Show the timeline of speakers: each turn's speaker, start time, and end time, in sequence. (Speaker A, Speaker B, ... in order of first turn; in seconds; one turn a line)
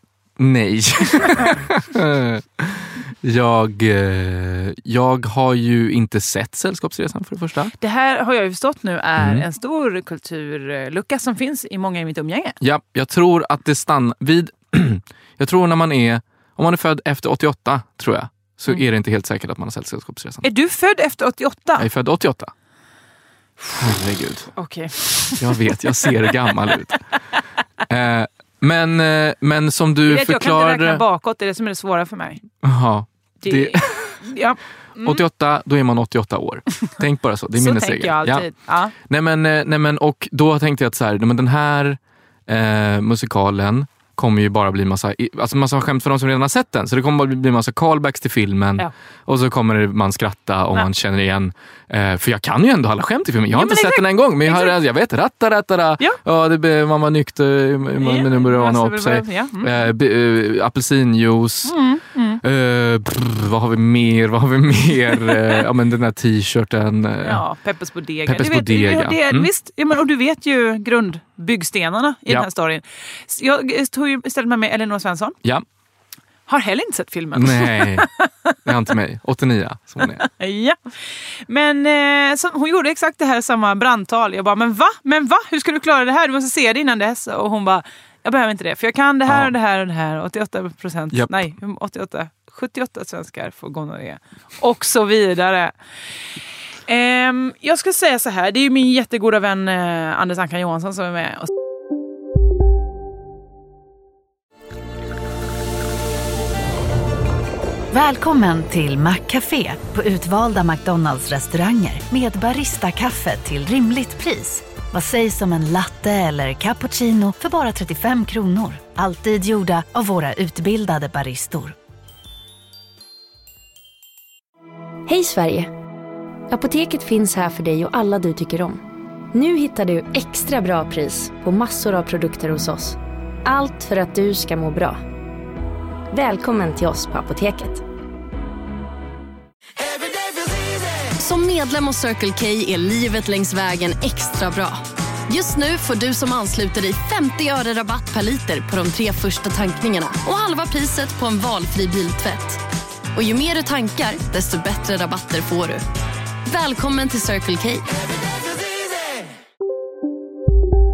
Speaker A: 0.4-7.7
Speaker B: 1.2-1.5
Speaker B: 7.8-12.6
Speaker A: 9.2-9.4
Speaker A: 12.6-20.4
Speaker B: 20.4-21.9
Speaker A: 21.8-22.5
Speaker A: 23.7-24.5
Speaker B: 24.6-26.3
Speaker A: 25.4-27.0
Speaker A: 27.9-31.0
Speaker B: 30.1-32.4
Speaker A: 32.6-34.2
Speaker B: 33.4-35.2
Speaker A: 35.0-61.8
Speaker B: 37.5-38.9
Speaker B: 53.5-54.7
Speaker B: 58.0-59.9
Speaker B: 61.6-62.4
Speaker A: 62.4-67.4
Speaker B: 65.2-65.5
Speaker B: 67.2-75.3
Speaker A: 68.2-69.5
Speaker B: 76.5-78.5
Speaker A: 77.3-78.1
Speaker A: 78.6-80.2
Speaker B: 80.2-95.7
Speaker A: 89.3-89.5
Speaker A: 91.1-91.5
Speaker B: 96.9-101.5
Speaker C: 107.9-121.8
Speaker D: 125.1-125.7
Speaker D: 126.5-128.8
Speaker D: 129.3-135.0
Speaker D: 136.1-137.8
Speaker E: 141.1-152.6
Speaker E: 153.1-155.8
Speaker E: 156.5-157.9